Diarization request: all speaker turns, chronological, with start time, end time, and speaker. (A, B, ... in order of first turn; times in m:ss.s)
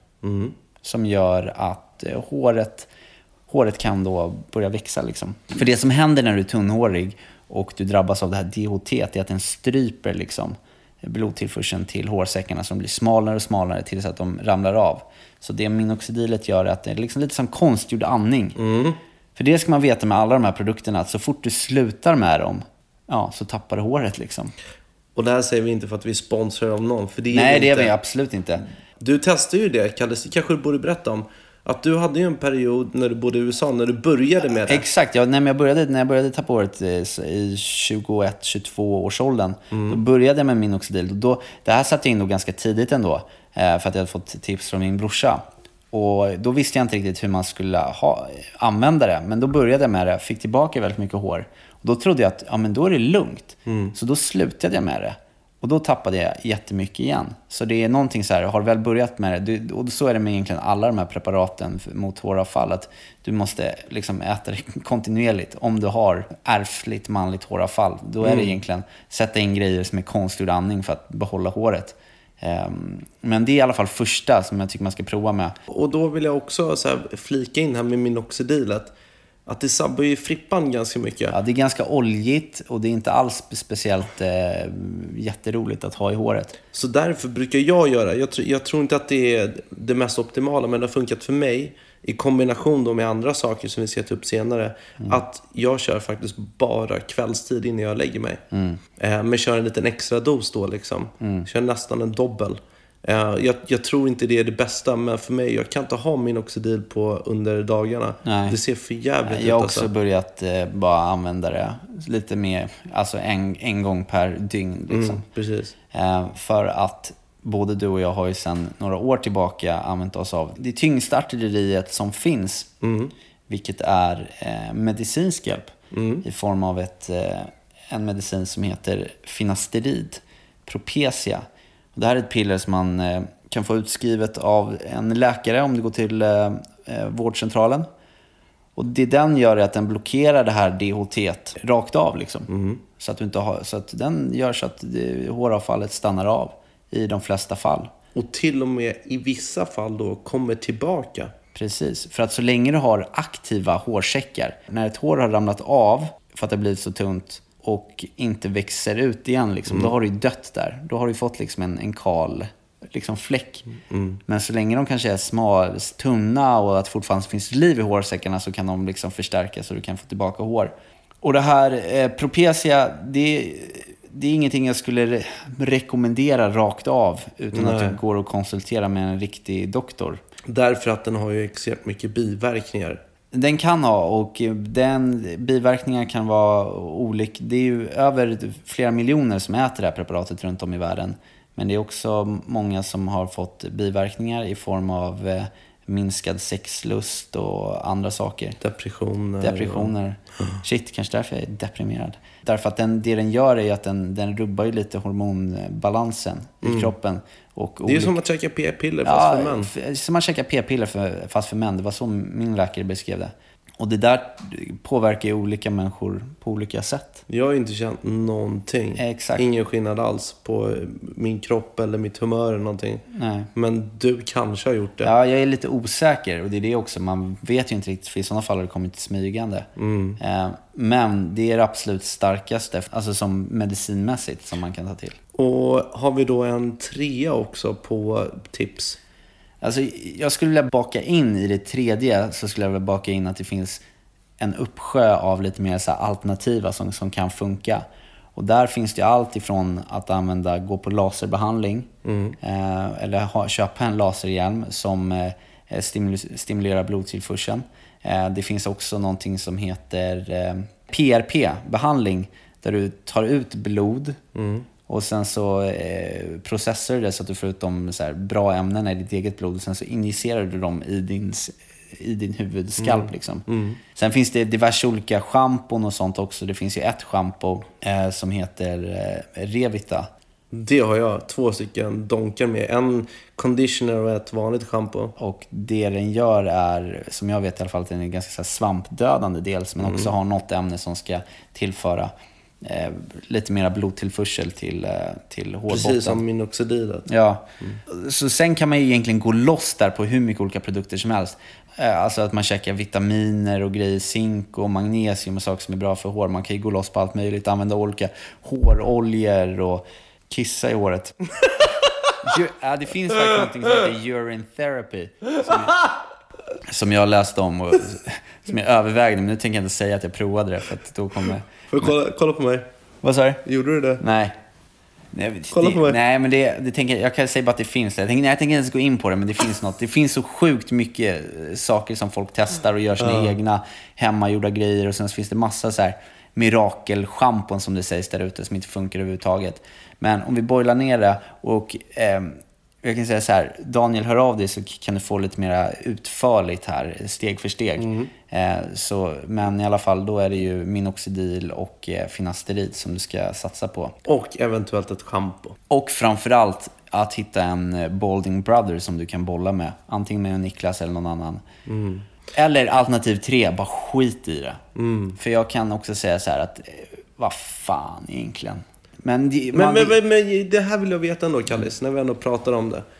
0:00.2-0:00.5 A
0:00.8-0:02.9 B
0:03.5-0:18.6 B
0:18.6-0:19.0 A
0:19.4-0:24.5 B
0:25.2-0:27.9 A
0:27.3-0:28.6 B
0:29.0-0:34.8 A
0:34.6-1:15.6 B
0:39.7-0:40.0 A
0:53.6-0:53.9 A
1:08.2-1:08.5 A
1:15.7-1:18.9 A
1:19.4-1:21.4 A
1:21.3-1:26.5 B
1:26.7-1:38.4 A
1:38.5-1:38.8 B
1:39.0-1:49.9 A
1:41.2-1:41.5 B
1:48.2-1:48.6 B
1:49.2-1:55.2 B
1:54.9-1:55.7 A
1:55.9-2:02.7 B
2:02.8-2:03.1 A
2:03.5-2:17.9 B
2:05.9-2:06.2 A
2:18.8-2:27.9 B
2:22.5-2:22.8 A
2:28.1-2:31.3 A
2:31.5-2:43.6 B
2:39.7-2:39.9 A
2:43.9-2:44.2 A
2:44.3-3:00.2 B
2:57.5-2:58.0 A
3:00.5-3:03.0 A
3:03.3-3:18.6 B
3:18.6-3:19.9 A
3:19.4-3:28.2 B
3:26.6-3:26.9 A
3:27.8-3:29.7 A
3:29.0-3:37.2 B
3:37.3-3:45.1 A
3:39.0-3:39.4 B
3:43.1-3:43.5 B
3:45.0-3:49.7 B
3:49.8-3:50.2 A
3:50.2-3:55.2 B
3:55.3-3:59.0 A
3:59.6-4:03.8 B
4:04.4-4:24.2 B
4:12.0-4:12.4 A
4:24.3-4:24.7 A
4:24.9-4:40.1 B
4:32.8-4:33.8 A
4:40.5-4:45.1 A
4:45.2-4:56.2 B
4:49.8-4:50.1 A
4:55.7-4:57.1 A
4:57.1-5:11.2 B
5:12.2-5:15.8 B
5:16.6-5:21.9 B
5:21.7-5:22.7 A
5:23.0-5:23.4 B
5:23.4-5:24.0 A
5:24.0-5:24.3 B
5:25.1-5:54.0 B
5:25.5-5:26.0 A
5:33.0-5:33.3 A
5:47.8-5:48.1 A
5:54.0-5:55.6 A
5:55.7-6:01.4 B
6:01.7-6:02.0 A
6:02.3-6:04.6 B
6:04.8-6:05.2 A
6:05.2-6:10.0 B
6:09.5-6:12.8 A